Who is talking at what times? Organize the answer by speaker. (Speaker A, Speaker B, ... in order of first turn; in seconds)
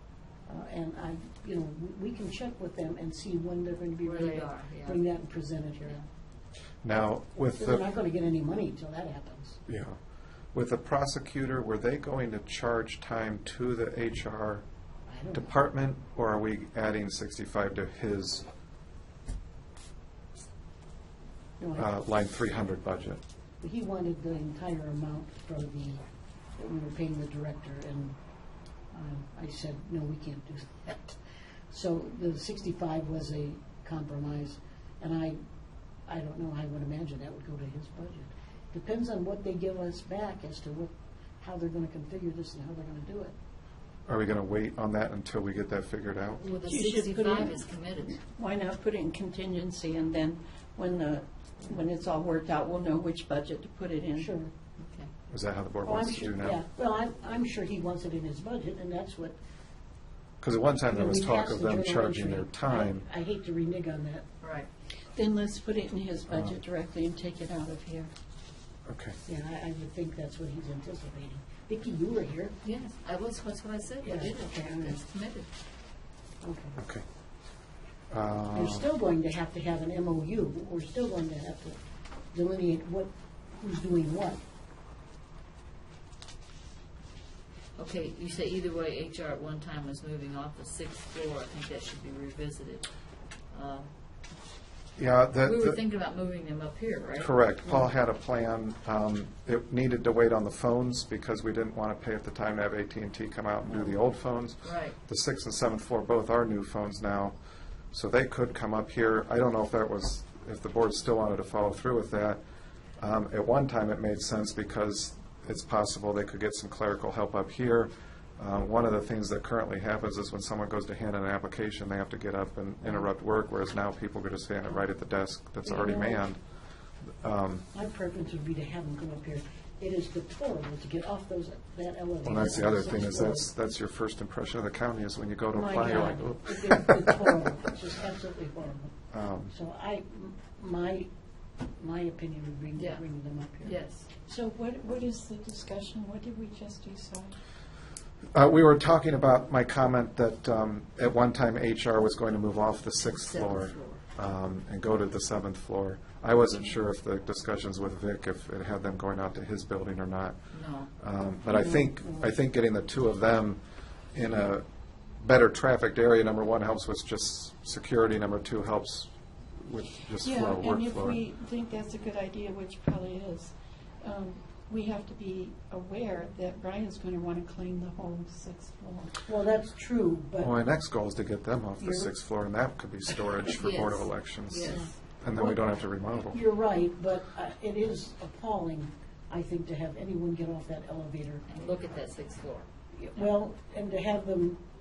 Speaker A: 0.5-6.0, 7.6-9.6, 15.1-15.5, 21.6-21.9, 23.6-26.0, 26.6-28.2, 28.9-31.2, 31.7-35.4, 36.1-43.3, 54.2-54.5, 55.8-59.4, 60.9-64.2, 69.2-72.5, 74.0-75.0, 76.4-76.8, 78.5-81.8, 82.3-84.4, 125.6-126.2, 127.7-133.5, 135.7-138.9, 139.5-141.1, 141.8-143.8, 179.2-180.5, 181.8-182.1, 184.7-185.7, 186.3-191.7, 192.9-194.6
Speaker B: 4.0-5.0, 46.4-48.2, 54.8-55.1, 64.4-64.7, 72.6-75.5, 87.8-92.8, 93.5-93.9, 95.4-97.4, 104.6-105.0, 142.8-143.0, 143.6-144.1, 152.9-154.0, 160.5-160.9, 183.5-184.9, 191.5-192.7
Speaker C: 6.8-7.8, 9.7-10.0, 10.5-14.6, 15.3-18.4, 21.8-23.2, 44.1-46.5, 55.3-56.6, 60.4-63.0, 66.3-66.6, 68.9-69.2, 76.8-77.0, 78.1-78.9, 95.0-95.8, 97.2-107.3, 107.9-112.4, 113.0-126.4, 127.2-127.6, 132.2-137.3, 139.1-139.5, 148.3-160.4, 161.0-163.6, 164.1-164.6, 165.2-171.2, 180.4-186.4
Speaker D: 46.6-47.6, 48.1-54.3, 65.2-68.1, 135.6-136.3, 144.3-147.3, 170.2-179.2